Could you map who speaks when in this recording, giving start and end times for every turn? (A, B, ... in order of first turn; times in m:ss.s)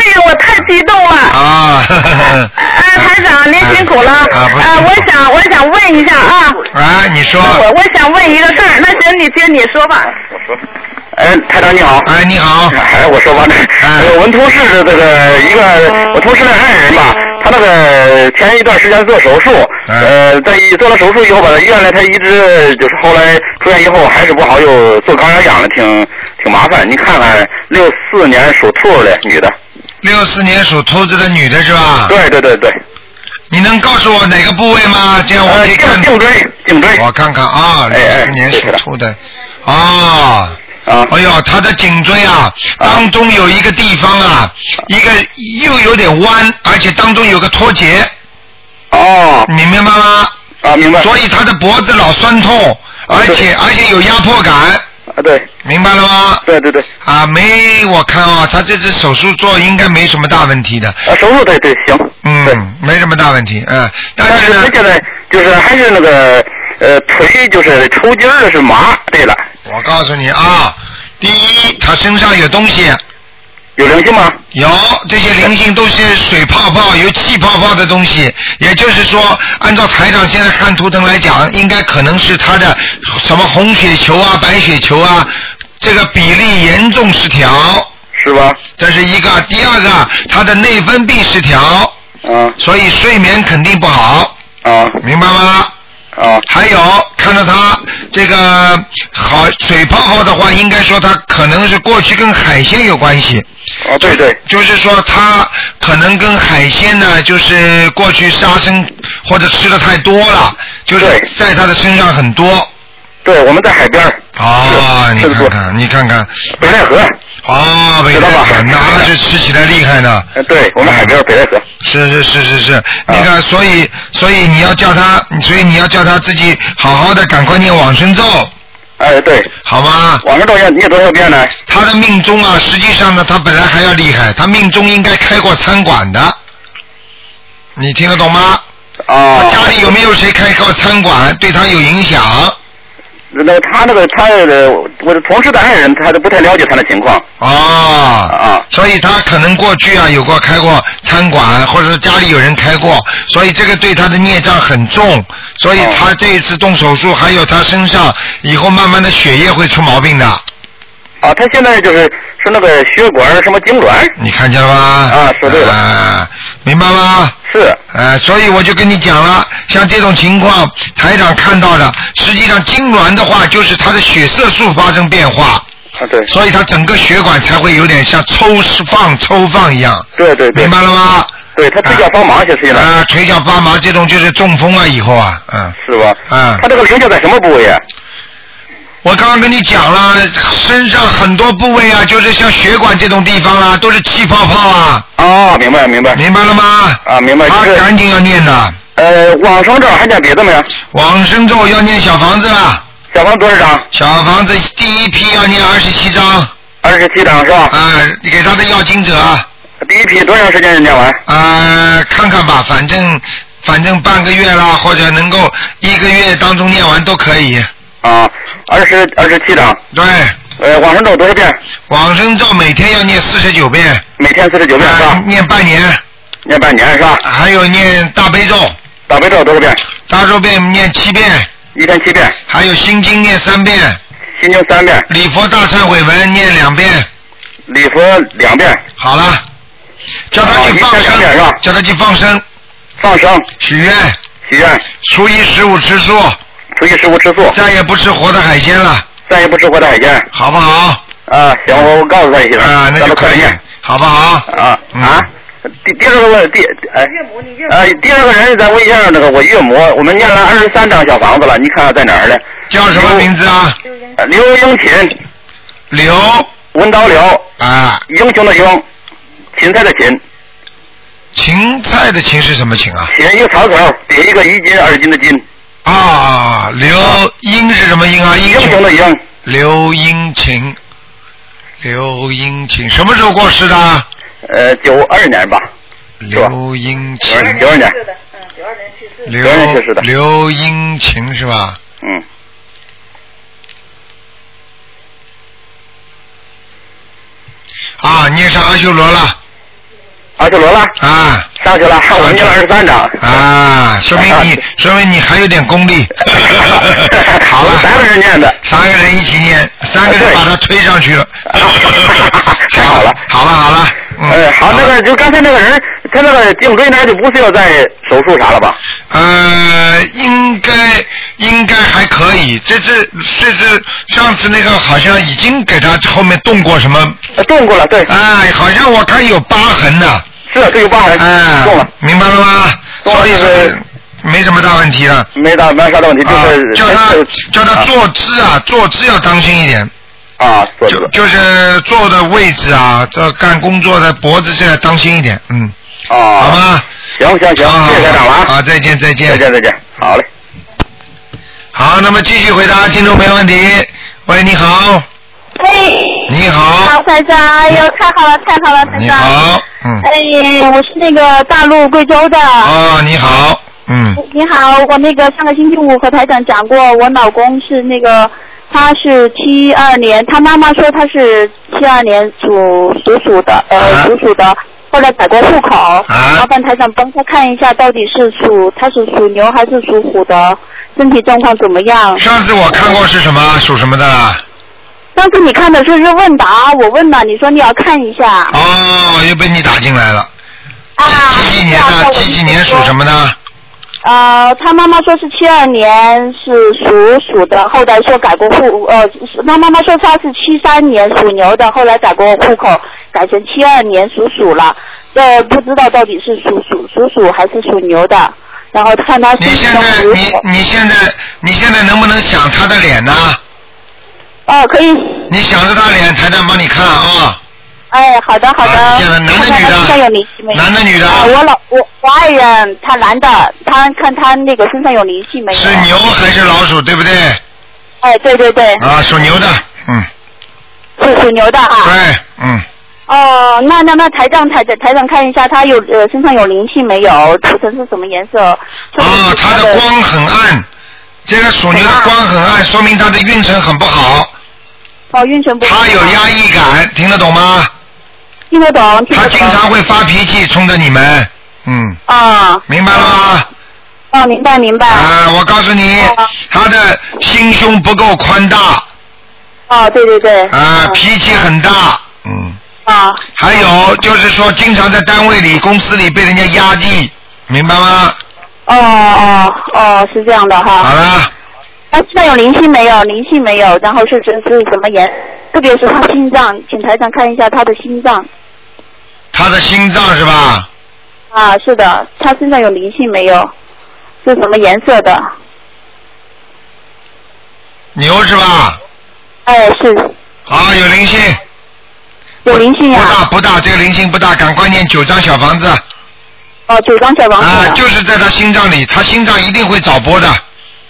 0:01.3-0:02.5 A
0:03.6-0:05.1 A
0:05.2-0:06.3 B
0:06.7-0:07.6 A
0:08.0-0:09.9 B
0:11.1-0:12.1 C
0:12.0-0:12.8 A
0:12.7-0:29.5 C
0:13.8-0:14.2 A
0:30.0-0:32.2 A
0:32.1-0:32.8 C
0:33.5-0:36.1 A
0:35.4-0:37.0 C
0:37.0-0:40.6 A
0:37.9-0:38.8 C
0:40.8-0:41.1 C
0:41.1-0:48.1 A
0:48.9-0:49.5 C
0:49.5-0:50.3 A
0:50.6-0:51.1 C
0:51.0-0:54.8 A
0:53.1-0:53.4 C
0:55.2-0:55.5 C
0:55.6-0:56.4 A
0:56.4-0:56.9 C
0:57.0-1:01.0 A
1:01.0-1:02.6 C
1:02.2-1:04.7 A
1:04.2-1:09.4 C
1:09.6-1:13.0 A
1:13.8-1:14.4 C
1:14.5-1:27.9 A
1:28.1-1:28.6 C
1:28.8-1:31.9 A
1:32.2-1:32.6 C
1:32.6-1:34.3 A
1:34.6-1:35.0 C
1:35.0-1:35.7 A
1:36.2-1:36.4 C
1:36.5-1:43.4 A
1:43.8-1:44.4 C
1:44.0-1:52.7 A
1:51.0-1:51.3 C
1:53.2-1:55.5 C
1:54.4-1:56.5 A
1:56.6-1:57.1 C
1:57.4-2:00.3 A
1:58.1-1:59.1 C
2:00.4-2:01.6 C
2:00.8-2:01.1 A
2:01.8-2:08.5 A
2:09.0-2:09.5 C
2:09.6-2:10.2 A
2:10.2-2:11.5 C
2:11.7-2:16.4 A
2:17.8-2:18.6 A
2:19.1-2:19.8 C
2:19.3-2:22.6 A
2:23.3-2:27.2 C
2:27.4-2:40.4 A
2:28.3-2:28.6 C
2:41.2-2:44.1 C
2:44.2-2:47.3 A
2:45.1-2:45.7 C
2:47.5-2:47.8 C
2:47.9-2:55.6 A
2:56.0-2:56.3 C
2:56.3-3:02.0 A
3:00.2-3:00.7 C
3:01.5-3:02.9 C
3:02.7-3:05.7 A
3:05.8-3:07.8 C
3:06.3-3:06.6 A
3:09.0-3:15.0 A
3:15.2-3:16.2 C
3:16.1-3:18.8 A
3:17.0-3:17.8 C
3:19.0-3:20.7 C
3:20.9-3:22.8 A
3:23.1-3:23.8 C
3:23.9-3:26.5 A
3:26.8-3:27.7 C
3:27.7-3:29.4 A
3:29.8-3:31.2 C
3:31.3-3:37.7 A
3:38.0-3:39.8 C
3:39.9-3:40.4 A
3:40.6-3:41.6 C
3:41.9-3:44.0 A
3:44.2-3:45.2 C
3:44.8-3:46.0 A
3:46.4-3:47.2 C
3:47.2-3:48.7 A
3:49.1-3:49.8 C
3:50.1-3:51.5 A
3:51.7-3:52.4 C
3:52.5-3:54.0 A
3:54.4-3:55.0 C
3:55.1-3:57.1 A
3:57.7-3:58.8 C
3:59.0-3:59.4 A
4:00.3-4:02.4 A
4:00.4-4:01.6 C
4:03.0-4:03.5 C
4:03.6-4:04.2 A
4:04.4-4:04.8 C
4:05.0-4:06.4 A
4:06.8-4:07.6 C
4:07.5-4:09.1 A
4:09.3-4:10.3 C
4:10.3-4:11.0 A
4:11.3-4:13.6 C
4:12.6-4:15.2 A
4:14.5-4:15.3 C
4:15.8-4:17.1 C
4:17.6-4:23.3 C
4:22.7-4:23.8 A
4:24.2-4:25.2 C
4:25.9-4:26.5 A
4:26.6-4:27.4 C
4:27.6-4:28.0 A
4:28.1-4:28.8 C
4:29.5-4:30.2 C
4:31.3-4:33.1 A
4:33.1-4:35.4 C
4:35.8-4:38.8 A
4:38.5-4:39.2 C
4:39.4-4:40.8 A
4:41.8-4:44.0 A
4:44.5-4:45.6 C
4:46.2-4:47.7 A
4:47.2-4:48.0 C
4:49.2-4:51.8 A
4:49.4-4:50.0 C
4:58.0-4:59.4 A
5:00.4-5:00.9 C
5:01.0-5:01.5 A
5:01.6-5:03.4 C
5:02.2-5:02.6 A
5:03.2-5:07.9 A
5:04.2-5:04.5 C
5:06.5-5:08.6 C
5:08.6-5:14.9 A
5:10.0-5:10.4 C
5:11.6-5:13.2 C
5:14.3-5:18.8 C
5:19.1-5:27.2 A
5:27.4-5:28.1 C
5:28.1-5:30.2 A
5:30.5-5:31.9 C
5:31.2-5:35.3 A
5:33.0-5:33.7 C
5:35.3-5:37.9 C
5:36.2-5:39.9 A
5:40.4-5:41.1 C
5:40.9-5:45.7 A
5:46.1-5:46.6 C
5:46.4-5:46.8 A
5:47.1-5:48.5 C
5:47.6-5:49.4 A
5:49.3-5:50.2 C
5:51.7-5:55.0 A
5:55.6-5:59.4 D
5:56.3-5:57.0 A
5:58.8-6:00.0 A
6:00.0-6:02.7 D
6:02.6-6:04.2 A
6:04.2-6:22.2 D
6:13.7-6:14.1 A
6:16.1-6:16.5 A
6:22.2-6:24.4 A
6:25.1-6:28.6 D
6:28.5-6:30.3 A
6:31.0-6:32.9 D
6:31.0-6:33.4 A
6:34.0-6:50.4 D
6:49.4-6:53.4 A
6:54.4-6:55.3 D
6:55.3-6:57.4 A
6:57.9-7:05.9 D
6:58.6-7:00.0 A
7:00.5-7:01.3 A
7:05.5-7:07.4 A
7:08.0-7:08.8 D
7:08.8-7:10.1 A
7:11.0-7:11.9 D
7:11.8-7:12.6 A
7:13.1-7:19.8 D
7:19.0-7:20.6 A
7:21.2-7:24.3 A
7:21.7-7:22.1 D
7:25.1-7:26.2 D
7:25.6-7:27.7 A
7:28.5-7:29.6 D
7:29.1-7:32.0 A
7:32.1-7:33.2 D
7:32.7-7:33.5 A
7:34.1-7:35.1 D
7:34.9-7:38.8 A
7:36.0-7:36.3 D
7:39.7-7:41.0 D
7:40.5-7:42.6 A
7:42.8-7:43.3 D
7:43.4-7:48.2 A
7:48.7-7:50.9 D
7:50.8-7:51.3 A
7:51.9-7:58.3 D
7:59.3-8:00.7 A
8:01.3-8:03.5 D
8:04.2-8:05.3 D
8:07.9-8:08.8 A
8:09.4-8:10.1 D
8:10.5-8:11.4 A
8:12.4-8:13.2 D
8:12.5-8:15.8 A
8:16.7-8:17.8 D
8:17.4-8:20.4 A